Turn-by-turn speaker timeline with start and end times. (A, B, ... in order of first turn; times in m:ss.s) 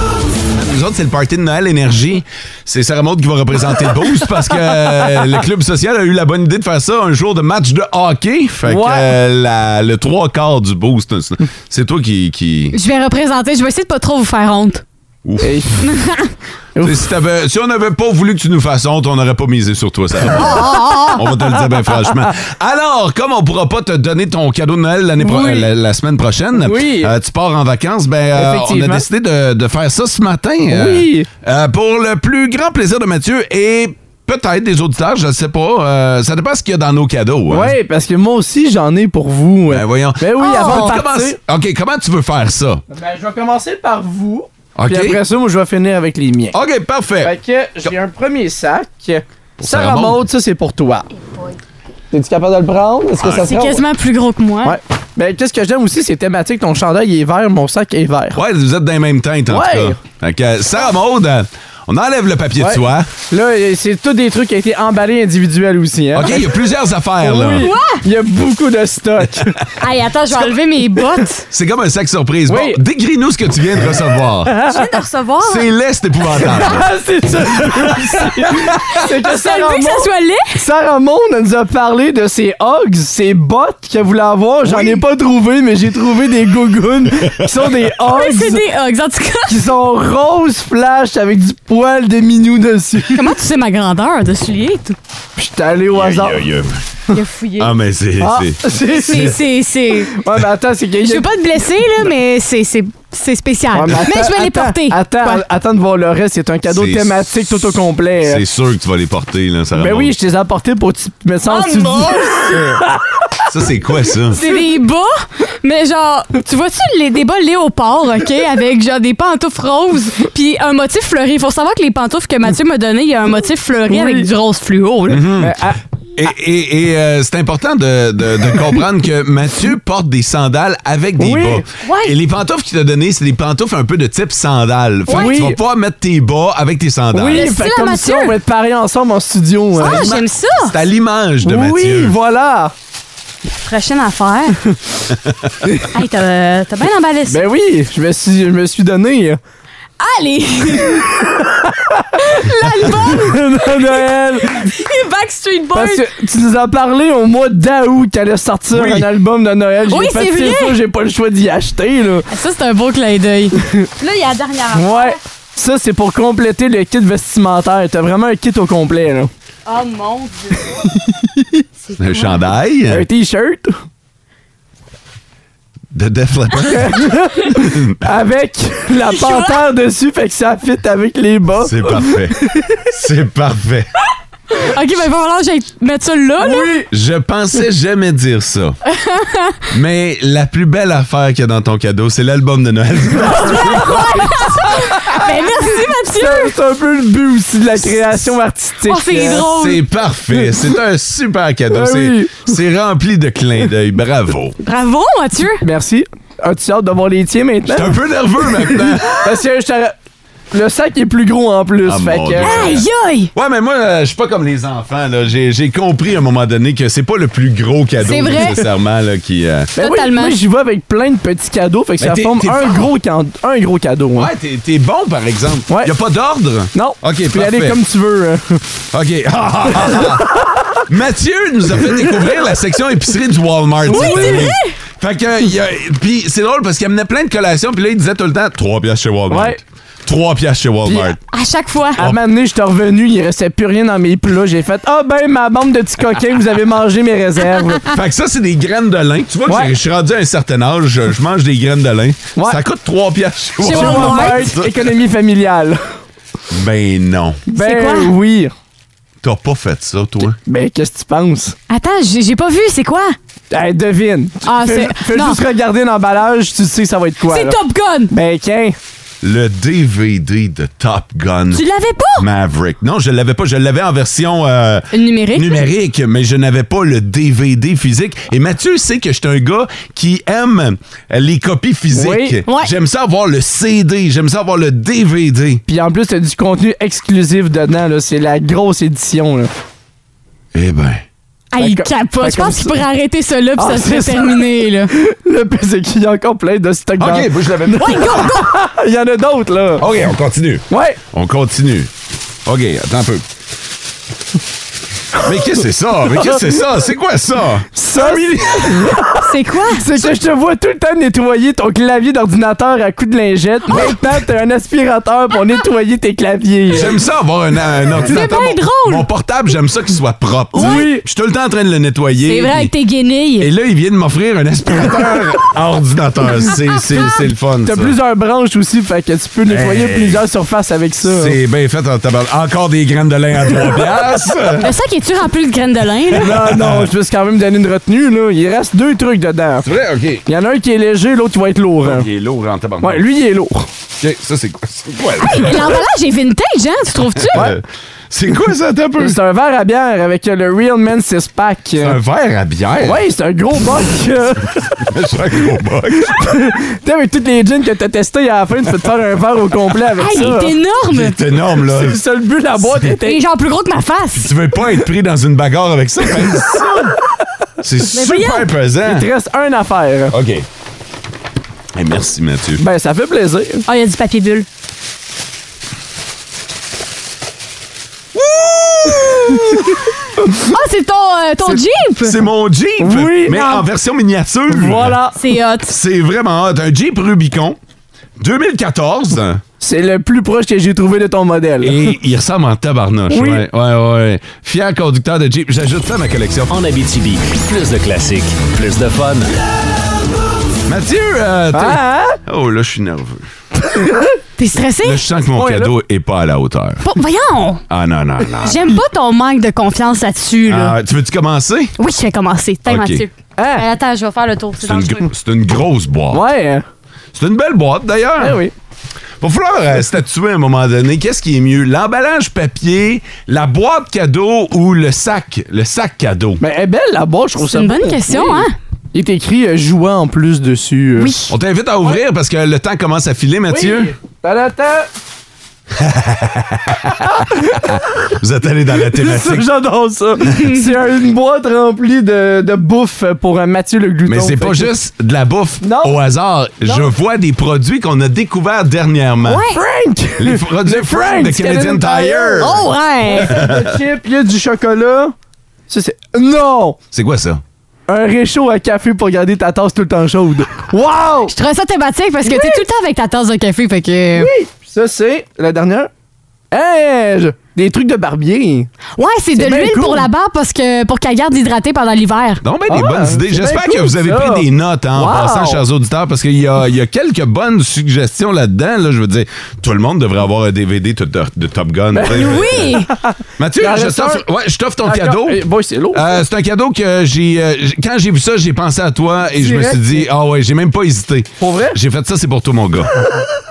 0:00.6-0:12.8 A
0:08.7-0:09.1 B
0:12.7-0:14.8 C
0:15.2-0:15.6 A
0:15.4-0:15.8 B
0:15.8-0:16.3 C
0:16.8-0:17.0 B
0:16.8-0:37.8 A
0:20.4-0:21.2 C
0:25.2-0:25.7 B
0:26.6-0:27.1 B
0:28.4-0:29.0 B
0:30.7-0:31.3 B
0:37.5-0:41.4 B
0:39.7-0:42.8 A
0:40.4-0:41.0 C
0:42.9-0:46.6 B
0:44.8-0:45.2 A
0:46.5-0:47.9 A
0:47.2-0:51.1 B
0:49.6-0:50.2 A
0:52.1-0:53.8 B
0:53.2-0:53.5 A
0:53.4-0:54.8 C
0:54.6-0:58.4 B
0:58.3-1:03.1 A
0:59.5-1:00.0 B
1:02.6-1:06.5 B
1:06.1-1:07.7 A
1:07.2-1:09.7 B
1:07.5-1:08.0 C
1:09.8-1:11.5 C
1:10.3-1:11.0 B
1:11.5-1:14.5 A
1:12.5-1:12.8 B
1:14.5-1:14.9 B
1:14.6-1:15.7 C
1:15.4-1:16.9 A
1:16.4-1:28.6 B
1:17.7-1:18.2 A
1:19.0-1:20.5 C
1:24.6-1:25.0 A
1:28.0-1:29.6 C
1:29.5-1:33.2 B
1:33.1-1:35.0 C
1:35.4-1:36.4 B
1:35.9-1:36.8 A
1:37.1-1:37.7 C
1:37.6-1:39.4 A
1:38.2-1:39.4 B
1:39.0-1:40.2 C
1:40.1-1:41.2 B
1:41.0-1:45.4 C
1:43.7-1:48.4 B
1:46.7-1:47.7 A
1:48.2-1:50.1 A
1:49.8-1:53.4 B
1:51.4-1:52.7 C
1:53.5-1:54.4 A
1:54.3-2:05.3 C
2:03.9-2:04.3 B
2:05.1-2:05.6 A
2:05.4-2:05.8 B
2:06.2-2:17.5 A
2:11.2-2:11.6 B
2:11.8-2:12.1 C
2:15.1-2:15.5 C
2:15.1-2:15.6 B
2:17.1-2:20.1 B
2:17.3-2:18.4 C
2:19.8-2:20.7 C
2:19.8-2:22.2 A
2:21.4-2:22.7 B
2:23.6-2:24.6 C
2:25.9-2:27.4 C
2:27.3-2:29.4 B
2:30.0-2:31.3 C
2:31.4-2:32.1 B
2:32.2-2:36.1 C
2:33.0-2:34.7 B
2:35.7-2:42.3 B
2:38.7-2:39.1 A
2:39.9-2:40.8 C
2:42.3-2:45.2 C
2:44.7-2:49.3 B
2:49.7-2:50.9 C
2:51.1-2:51.4 B
2:51.8-2:52.4 C
2:52.0-2:53.1 A
2:52.9-2:53.8 B
2:55.9-2:58.0 A
2:56.6-3:02.8 B
2:59.0-2:59.6 C
3:01.6-3:03.9 A
3:04.6-3:06.8 C
3:06.4-3:06.9 B
3:06.9-3:08.8 A
3:08.9-3:09.6 C
3:09.7-3:14.4 A
3:13.4-3:13.8 B
3:13.4-3:16.5 C
3:15.0-3:15.2 B
3:16.2-3:19.5 B
3:18.8-3:19.8 C
3:19.4-3:24.6 A
3:21.7-3:22.4 B
3:24.6-3:25.6 C
3:25.6-3:28.0 B
3:27.7-3:29.3 A
3:28.6-3:30.0 B
3:30.5-3:32.6 B
3:31.8-3:39.7 A
3:32.4-3:33.3 C
3:38.0-3:38.6 C
3:39.8-3:40.4 C
3:39.8-3:44.3 B
3:42.0-3:42.9 A
3:44.2-3:47.8 A
3:46.7-3:48.6 B
3:48.9-3:50.3 A
3:49.9-3:50.8 B
3:50.9-4:01.2 A
3:53.9-3:54.5 B
3:53.9-3:54.8 C
3:59.3-3:59.6 B
4:01.2-4:02.0 C
4:02.0-4:07.9 B
4:07.9-4:14.9 A
4:09.5-4:09.7 B
4:12.4-4:12.6 B
4:13.6-4:14.6 C
4:13.6-4:15.8 B
4:16.5-4:17.4 A
4:17.5-4:18.5 B
4:17.6-4:18.1 C
4:19.2-4:20.4 A
4:20.4-4:21.6 B
4:21.7-4:23.2 C
4:23.5-4:27.6 B
4:24.4-4:25.4 C
4:27.3-4:28.1 C
4:28.1-4:28.8 B
4:29.2-4:31.6 A
4:31.5-4:32.3 C
4:32.2-4:45.6 A
4:34.9-4:35.6 C
4:41.9-4:42.4 B
4:42.4-4:42.7 C
4:45.7-4:49.5 B
4:50.5-4:51.0 A
4:51.5-4:54.9 C
4:51.6-4:52.8 B
4:53.6-4:59.9 B
4:57.0-4:58.3 A
4:57.7-4:58.5 C
4:59.8-5:01.9 A
5:00.7-5:01.0 B
5:02.4-5:03.2 A
5:05.2-5:08.9 A
5:07.8-5:17.0 B
5:09.2-5:09.9 C
5:16.7-5:22.7 A
5:17.9-5:19.1 C
5:20.5-5:21.0 B
5:20.6-5:20.9 C
5:22.2-5:23.5 C
5:23.4-5:28.0 A
5:27.6-5:31.4 B
5:29.5-5:30.2 A
5:31.0-5:34.7 A
5:34.6-5:36.3 C
5:36.1-5:39.7 B
5:36.2-5:36.9 A
5:39.6-5:40.2 A
5:40.3-5:42.1 B
5:41.8-5:43.0 A
5:42.8-5:43.7 B
5:44.0-5:45.8 A
5:45.2-5:47.5 C
5:47.2-5:49.2 A
5:49.0-5:52.0 B
5:51.8-5:53.0 A
5:52.8-5:54.7 B
5:54.8-5:56.3 A
5:56.0-6:00.6 B
6:00.0-6:01.2 C
6:00.9-6:02.0 A
6:01.6-6:03.2 B
6:02.6-6:02.9 A
6:02.9-6:04.3 C
6:04.2-6:07.0 A
6:07.6-6:09.1 A
6:07.9-6:08.5 C
6:08.8-6:10.1 B
6:10.1-6:10.5 A
6:11.7-6:12.6 A
6:12.6-6:13.6 B
6:13.7-6:14.5 C
6:18.2-6:19.7 A
6:20.4-6:22.2 C
6:22.0-6:25.0 A
6:22.8-6:23.6 B
6:24.5-6:25.2 B
6:25.2-6:25.7 C
6:25.7-6:27.6 A
6:28.2-6:29.4 A
6:29.6-6:31.9 B
6:31.6-6:36.5 A
6:33.1-6:33.4 B
6:36.5-6:39.3 D
6:40.7-6:43.3 A
6:41.5-6:42.2 B
6:43.7-6:44.1 B
6:44.4-6:45.0 C
6:44.8-6:46.9 A
6:45.4-6:45.7 B
6:46.8-6:47.6 C
6:47.7-6:48.8 A
6:48.4-6:50.8 C
6:50.5-6:51.8 A
6:51.8-6:55.1 C
6:52.7-6:53.1 A
6:53.4-6:53.6 B
6:54.6-6:56.2 A
6:56.1-6:56.6 B
6:57.2-6:58.4 A
6:58.2-6:58.5 B
6:59.2-7:06.4 A
7:06.4-7:11.2 B
7:07.4-7:08.6 C
7:11.0-7:11.3 C
7:11.3-7:13.9 A
7:13.5-7:14.9 B
7:15.7-7:19.5 A
7:17.0-7:17.8 B
7:18.7-7:24.7 B
7:20.3-7:20.7 C
7:24.1-7:29.5 A
7:25.6-7:26.0 B
7:29.2-7:29.6 C
7:29.5-7:35.1 B
7:30.2-7:32.6 A
7:32.4-7:33.4 C
7:33.2-7:33.7 A
7:35.7-7:36.8 B
7:36.9-7:37.4 A
7:37.9-7:41.3 B
7:41.3-7:44.3 C
7:42.2-7:42.6 B
7:44.2-7:45.9 B
7:46.5-7:48.7 B
7:49.0-7:52.4 C
7:49.4-7:50.1 B
7:52.4-8:02.8 A
7:52.7-7:55.6 B
8:01.9-8:04.2 B
8:02.0-8:02.9 C
8:03.4-8:12.9 A
8:04.8-8:06.2 B
8:09.4-8:10.0 B
8:11.4-8:11.8 B